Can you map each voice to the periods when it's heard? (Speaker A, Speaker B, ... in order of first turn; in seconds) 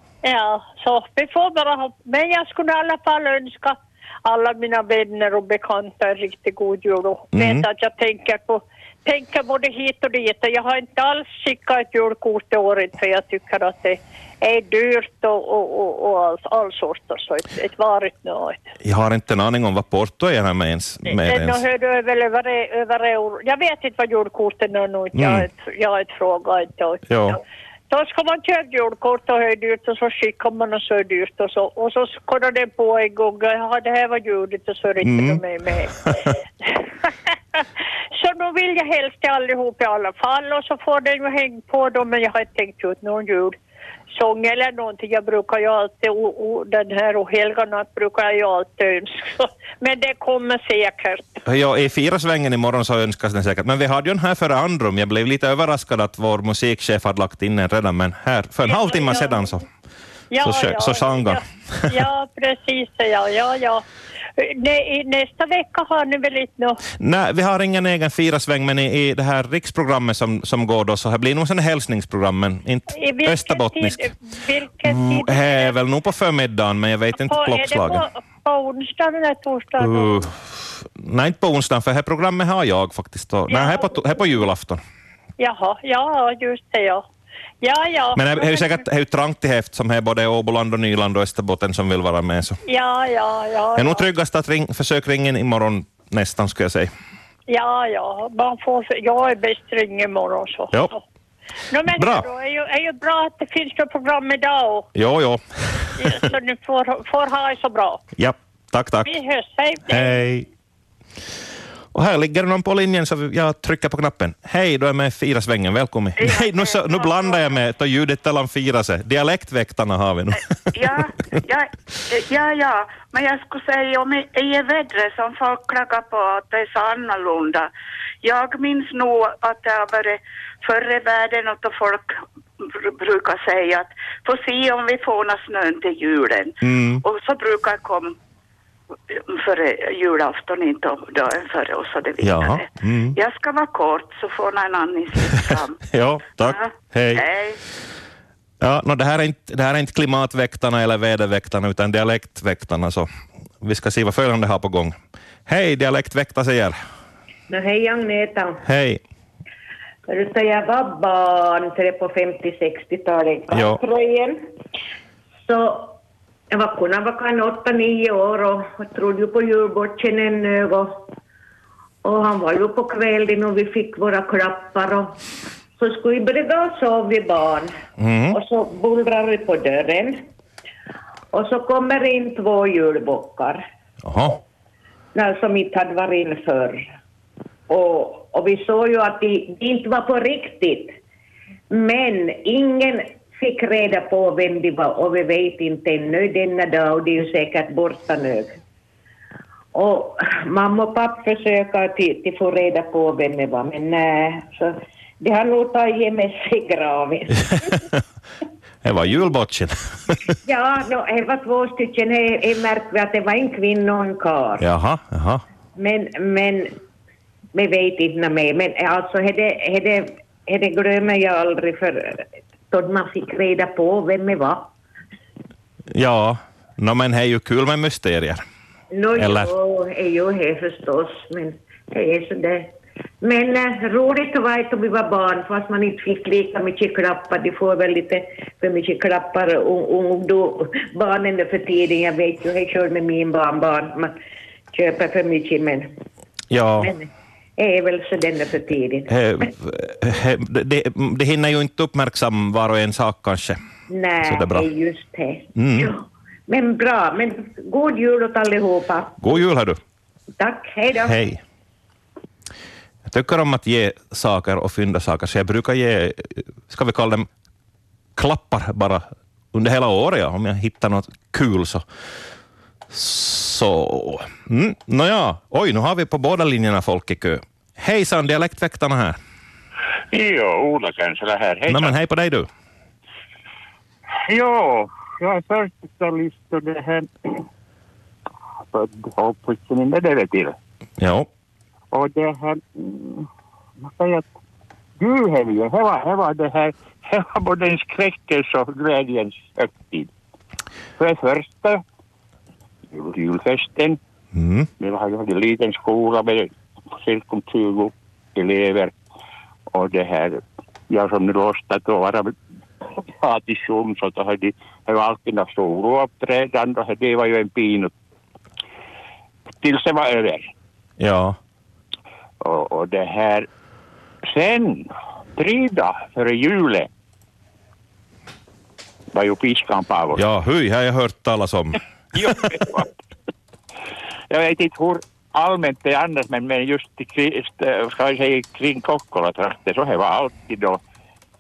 Speaker A: 0.2-18.7, 21.1-27.3, 27.9-43.6, 44.1-51.4, 58.6-59.5, 60.3-63.8, 64.4-66.8, 72.9-75.7, 77.2-80.3, 83.5-84.2, 85.4-87.0, 87.6-88.8, 92.7-94.1, 97.5-101.0, 101.7-104.9, 106.0-108.0, 109.0-110.2
Speaker B: 7.3-7.7, 18.8-21.6, 25.1-25.4, 27.1-27.4, 35.0-35.4, 51.5-59.6, 60.4-61.9, 67.0-74.0, 74.8-78.0, 79.8-84.8, 88.2-92.6, 93.8-96.9, 102.0-102.3, 105.0-105.9, 108.2-109.1, 109.9-110.5, 111.9-121.3, 136.6-137.0, 142.2-143.2, 145.9-147.2, 148.6-153.1, 153.6-155.0, 155.5-156.8, 158.6-159.0, 163.5-163.8, 178.0-178.4, 184.1-184.4, 207.5-208.0, 208.8-210.3, 214.6-215.4, 225.9-228.4, 229.2-229.5, 246.5-246.9, 249.1-253.6, 254.3-254.7, 255.6-255.9, 259.2-259.8, 261.1-261.4, 263.1-267.3, 268.2-271.8, 272.9-279.2, 281.7-282.5, 291.0-291.3, 304.4-304.7, 321.0-321.4, 330.1-331.8
Speaker C: 116.2-116.5, 120.7-127.7, 128.2-138.2, 139.1-145.8, 146.4-147.6
Speaker D: 157.5-158.6, 160.1-164.5, 165.4-166.0, 166.5-171.1, 172.0-175.2, 175.8-177.8, 178.3-180.3, 181.3-183.6, 185.2-186.9, 187.7-191.0, 191.7-198.6, 199.7-207.5, 210.5-214.7, 215.8-216.8, 217.5-224.7, 228.9-244.1, 244.7-246.0, 246.8-249.1, 253.9-259.2, 260.4-261.2
Speaker E: 280.1-281.9, 284.2-287.4, 288.7-290.6, 291.9-293.3, 293.8-294.3, 295.0-300.1, 301.0-301.8, 302.9-304.0, 304.8-308.9, 309.7-312.4, 313.1-317.9, 319.6-320.5, 322.4-323.5, 324.3-326.9, 329.1-330.2, 332.1-332.9, 334.3-340.8